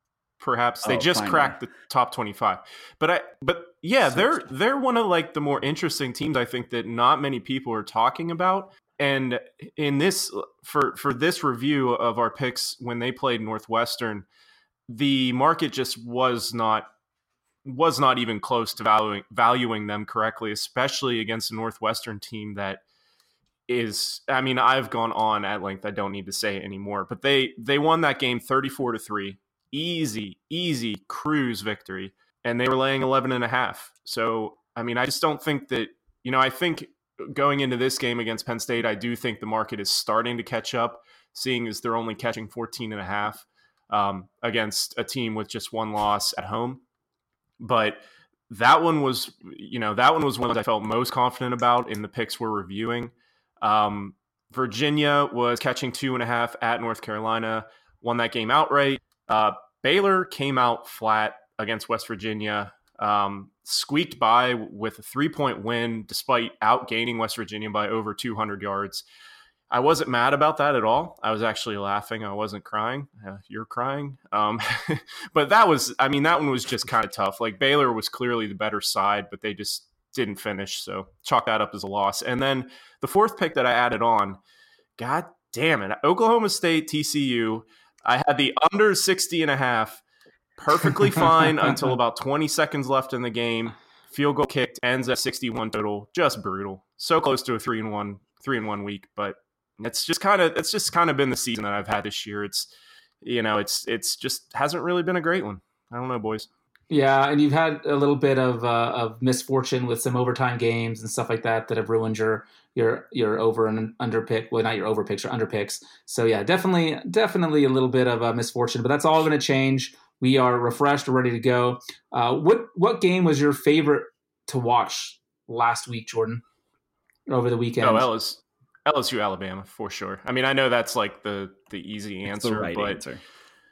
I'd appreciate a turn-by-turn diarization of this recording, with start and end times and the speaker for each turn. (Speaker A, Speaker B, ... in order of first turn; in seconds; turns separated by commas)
Speaker A: 0.4-14.2, Speaker B: 0.8-1.6, Speaker B: 4.0-4.4, Speaker A: 14.9-16.9, Speaker A: 17.6-22.8, Speaker A: 23.7-46.8, Speaker A: 47.6-69.0, Speaker A: 69.7-84.4, Speaker A: 85.0-90.0, Speaker A: 90.6-102.7, Speaker A: 103.2-106.5, Speaker C: 106.9-126.4, Speaker C: 127.3-128.1, Speaker A: 127.8-133.0, Speaker B: 132.2-133.2